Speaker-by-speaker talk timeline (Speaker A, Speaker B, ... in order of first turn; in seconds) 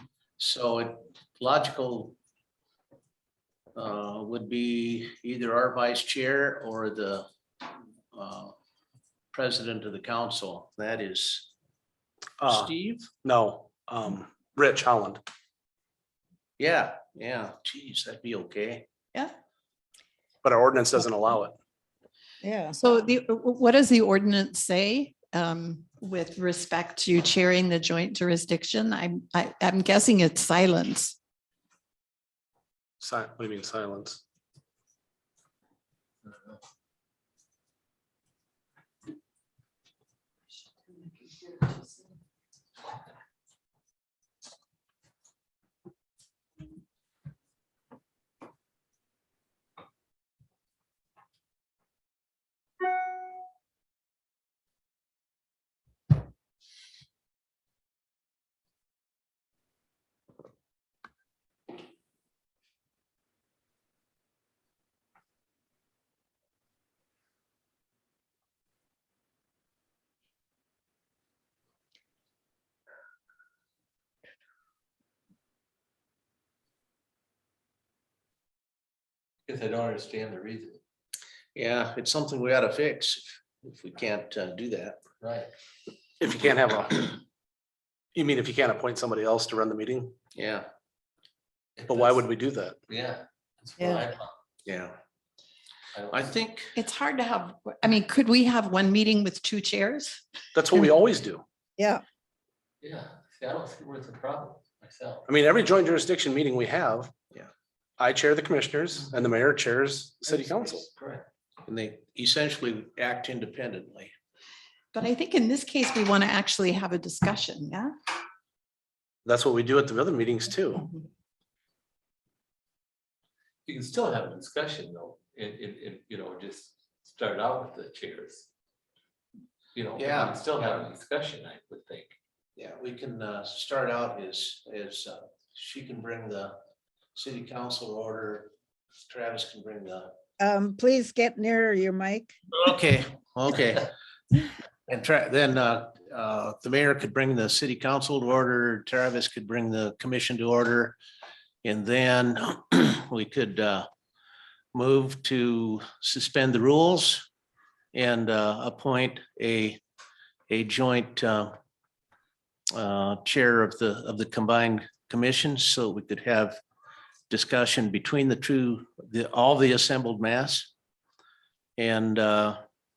Speaker A: 0.4-2.2, 3.8-8.5, 9.3-11.5, 12.5-13.1, 16.6-18.9, 81.5-85.0, 90.3-90.7, 94.7-95.0, 96.1-96.7, 111.6-114.1, 130.0-130.8, 132.6-136.5, 137.2-138.5, 139.0-140.1, 142.6-143.9, 144.9-151.0, 151.6-153.9, 154.7-157.3, 157.9-159.8, 160.5-161.5, 162.7-166.6, 167.3-170.7, 171.8-172.6
Speaker B: 12.4-15.2, 20.4-21.6, 33.0-34.2, 86.2-87.2, 88.2-90.2, 91.9-92.8, 100.5-101.4, 105.3-107.1, 108.0-110.8, 119.2-120.9
Speaker C: 22.4-22.8, 140.4-142.3
Speaker D: 22.8-31.1, 41.2-41.8, 93.8-94.1, 96.8-100.2, 114.9-117.9
Speaker E: 79.5-80.8, 85.2-85.5, 91.8-92.2, 92.9-94.3, 95.9-96.3, 102.8-105.2, 110.3-111.3, 123.7-128.5, 129.7-132.1